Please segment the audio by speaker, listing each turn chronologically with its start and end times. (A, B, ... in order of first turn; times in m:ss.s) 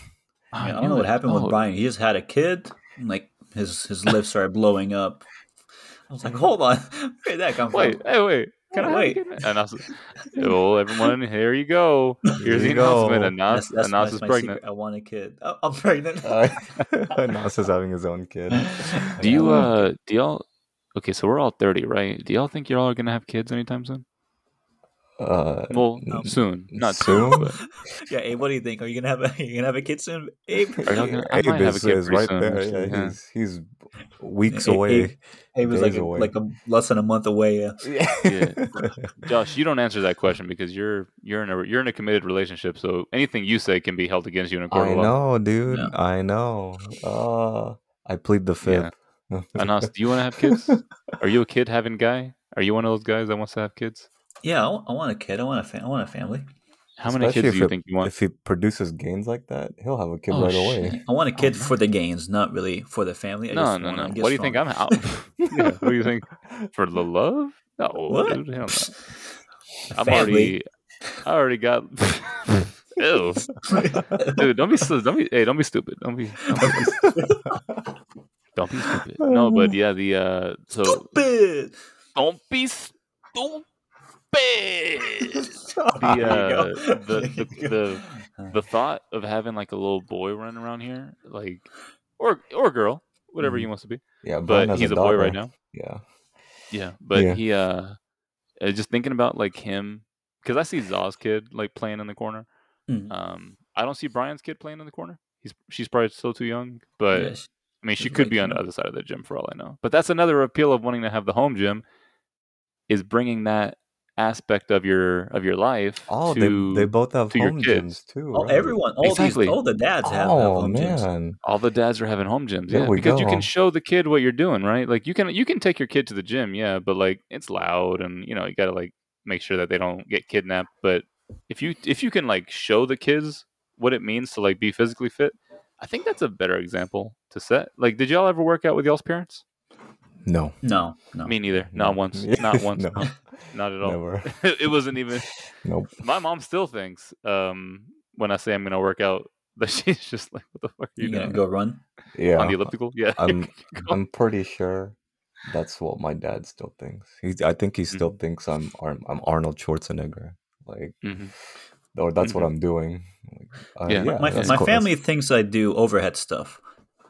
0:00.5-0:01.6 A
0:00.6-0:05.3 B
0:06.1-0:08.0 B
0:07.7-0:14.6 A
0:08.7-0:09.4 B
0:10.3-0:10.5 B
0:12.4-0:13.4 C
0:13.5-0:16.8 B
0:16.2-0:19.7 C
0:18.5-0:19.7 B
0:19.2-0:24.0 A
0:25.2-0:27.5 C
0:25.7-0:27.6 A
0:27.1-0:31.1 B
0:30.8-0:36.3 C
0:30.8-0:33.2 A
0:34.5-0:38.0 B
0:37.8-0:39.1 C
0:38.2-0:45.1 A
0:44.7-0:50.8 C
0:48.6-0:48.9 A
0:49.6-0:54.1 A
0:54.4-0:56.5 B
0:57.0-0:58.1 A
0:57.1-1:01.0 C
1:00.3-1:01.7 A
1:00.8-1:05.0 B
1:03.5-1:08.9 A
1:05.5-1:05.8 C
1:08.1-1:09.1 B
1:09.9-1:10.6 B
1:09.9-1:10.7 A
1:11.2-1:13.6 A
1:13.7-1:14.4 B
1:14.2-1:16.9 A
1:16.5-1:17.6 B
1:18.6-1:21.1 A
1:19.2-1:19.7 C
1:20.8-1:21.8 B
1:22.2-1:23.7 A
1:24.3-1:35.5 A
1:25.7-1:28.6 B
1:25.9-1:26.4 C
1:34.2-1:36.0 C
1:36.7-1:38.0 A
1:37.1-1:37.4 C
1:38.6-1:42.5 A
1:42.9-1:43.1 B
1:43.1-1:51.8 A
1:47.1-1:48.6 B
1:52.9-1:58.0 A
1:56.1-1:58.8 C
1:58.3-2:01.1 B
1:59.0-1:59.6 A
2:00.0-2:01.4 C
2:01.4-2:19.4 A
2:02.7-2:03.5 C
2:20.2-2:20.6 C
2:20.6-2:21.3 B
2:21.2-2:25.3 A
2:21.7-2:23.2 C
2:23.8-2:24.5 C
2:25.5-2:25.9 C
2:26.0-2:31.4 A
2:31.0-2:31.8 B
2:32.1-2:41.0 C
2:32.4-2:34.0 A
2:41.0-2:41.3 A
2:41.9-2:44.9 C
2:42.2-2:42.5 A
2:43.9-2:44.6 A
2:44.1-2:46.6 B